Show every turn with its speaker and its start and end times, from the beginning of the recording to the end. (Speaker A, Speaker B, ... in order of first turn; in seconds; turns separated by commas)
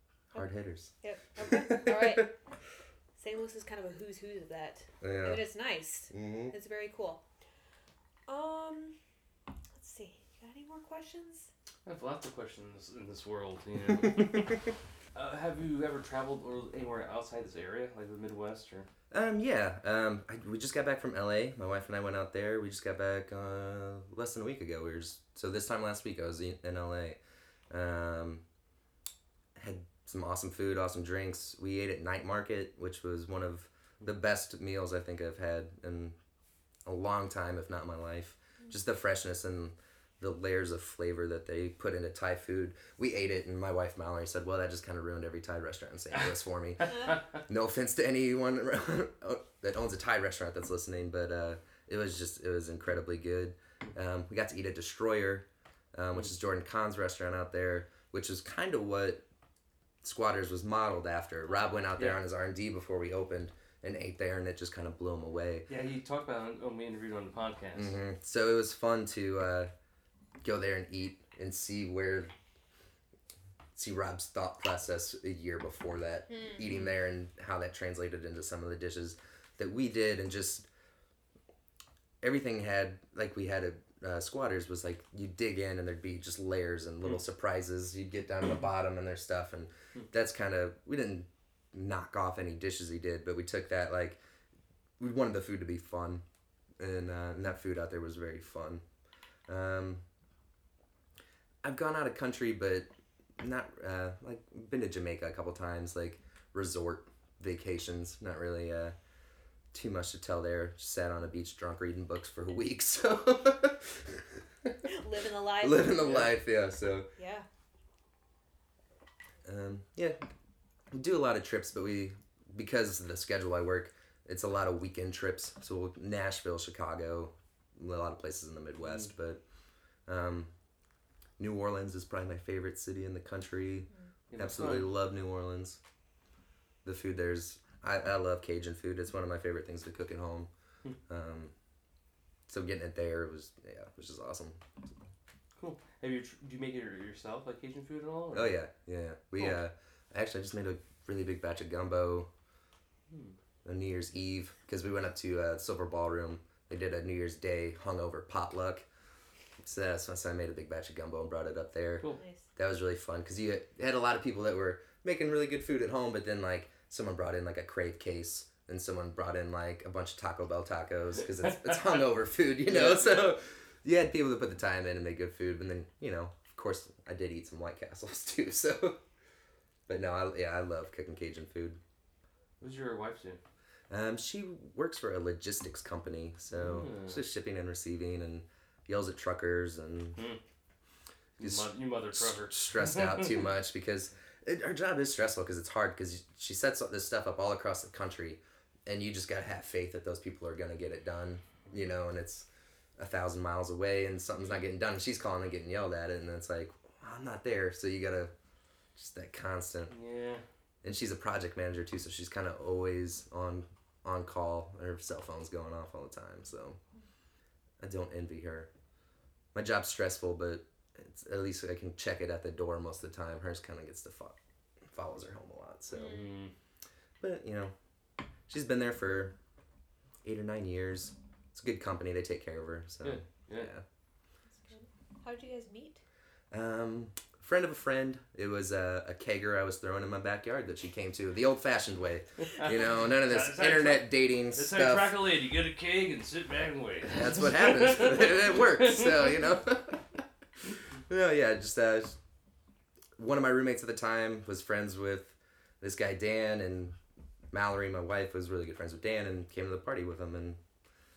Speaker A: 0.3-2.3, Speaker B: 0.3-2.3, Speaker A: 3.2-7.2, Speaker B: 5.0-5.4, Speaker B: 6.1-6.5, Speaker A: 8.3-9.0, Speaker A: 9.8-11.5, Speaker C: 11.9-18.9, Speaker B: 19.1-28.4, Speaker B: 29.6-36.2, Speaker B: 36.9-59.2, Speaker B: 60.0-65.7, Speaker C: 62.0-62.2, Speaker C: 65.7-68.0, Speaker B: 67.8-69.7, Speaker B: 70.4-72.3, Speaker B: 73.8-80.7, Speaker B: 82.2-94.2, Speaker B: 95.0-96.2, Speaker B: 96.8-98.8, Speaker B: 99.5-100.0, Speaker B: 101.6-109.0, Speaker B: 109.7-114.3, Speaker A: 114.8-116.0, Speaker B: 115.6-117.1, Speaker C: 116.0-116.3, Speaker A: 117.2-117.5, Speaker B: 119.4-120.2, Speaker B: 120.9-129.4, Speaker B: 130.1-130.5, Speaker B: 131.4-135.8, Speaker C: 134.3-134.9, Speaker B: 136.8-140.5, Speaker B: 141.1-141.5, Speaker B: 142.5-144.9, Speaker C: 145.6-148.6, Speaker B: 148.3-152.3, Speaker C: 153.1-153.4, Speaker B: 153.7-158.9, Speaker B: 159.6-162.1, Speaker A: 162.2-162.4, Speaker B: 162.6-179.0, Speaker C: 172.7-173.4, Speaker B: 179.9-181.8, Speaker C: 182.6-183.4, Speaker B: 183.9-190.2, Speaker C: 186.5-187.2, Speaker C: 191.4-193.5, Speaker B: 191.4-202.5, Speaker B: 203.0-208.3, Speaker B: 209.0-209.9, Speaker C: 209.9-210.4, Speaker B: 210.8-216.8, Speaker B: 217.8-218.7, Speaker B: 219.5-224.4, Speaker B: 224.9-226.3, Speaker C: 225.9-226.5, Speaker B: 227.2-227.7, Speaker B: 228.5-229.4, Speaker B: 230.2-233.8, Speaker C: 233.0-233.7, Speaker A: 234.5-236.0, Speaker B: 236.5-245.2, Speaker C: 242.5-249.2, Speaker B: 247.1-250.3, Speaker B: 251.1-252.2, Speaker B: 253.2-257.0, Speaker B: 257.5-260.6